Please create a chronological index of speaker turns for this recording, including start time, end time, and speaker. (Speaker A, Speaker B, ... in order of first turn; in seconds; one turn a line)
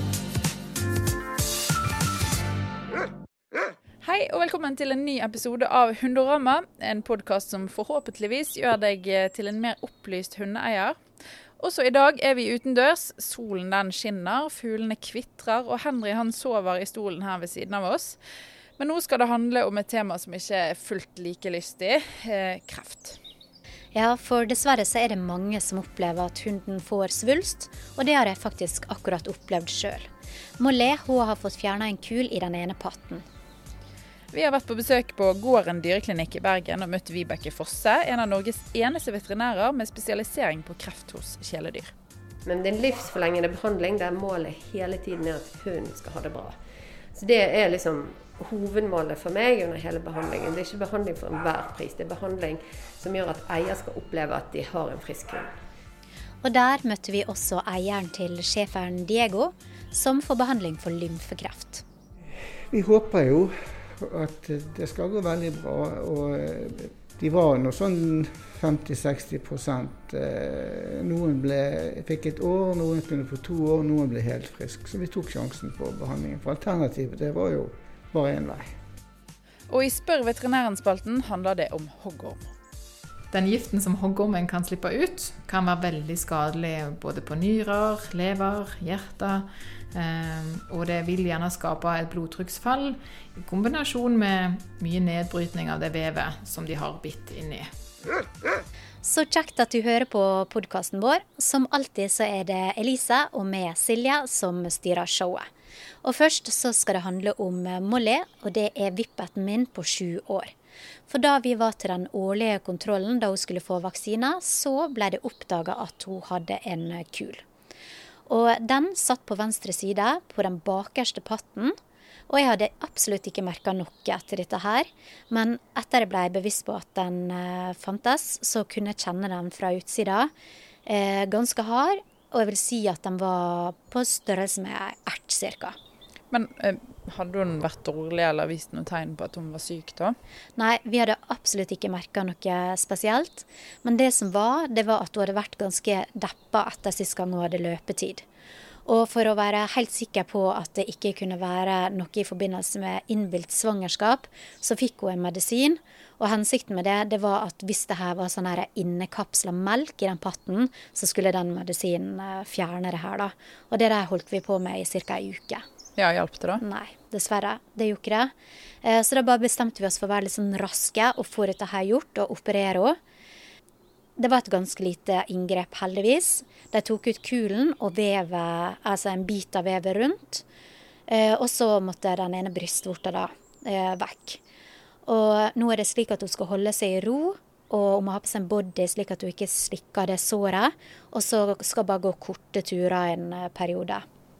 Speaker A: 4.0-11.0
Speaker A: 11.6-18.2
Speaker A: 18.8-23.2
Speaker B: 23.9-30.1
Speaker B: 30.6-33.2
Speaker A: 34.3-41.9
Speaker C: 42.5-46.5
Speaker C: 47.1-55.5
Speaker B: 56.4-61.8
Speaker D: 62.7-78.7
Speaker A: 79.7-82.4
Speaker E: 83.3-97.7
Speaker B: 99.0-105.5
Speaker B: 106.0-110.5
Speaker B: 111.1-117.4
Speaker B: 118.3-121.7
Speaker B: 122.3-130.3
Speaker B: 130.8-135.8
Speaker A: 136.3-140.1
Speaker B: 140.6-148.2
Speaker B: 148.8-165.6
Speaker A: 166.0-166.6
Speaker B: 166.6-173.0
Speaker B: 174.2-180.4
Speaker B: 181.1-184.4
Speaker B: 185.1-194.0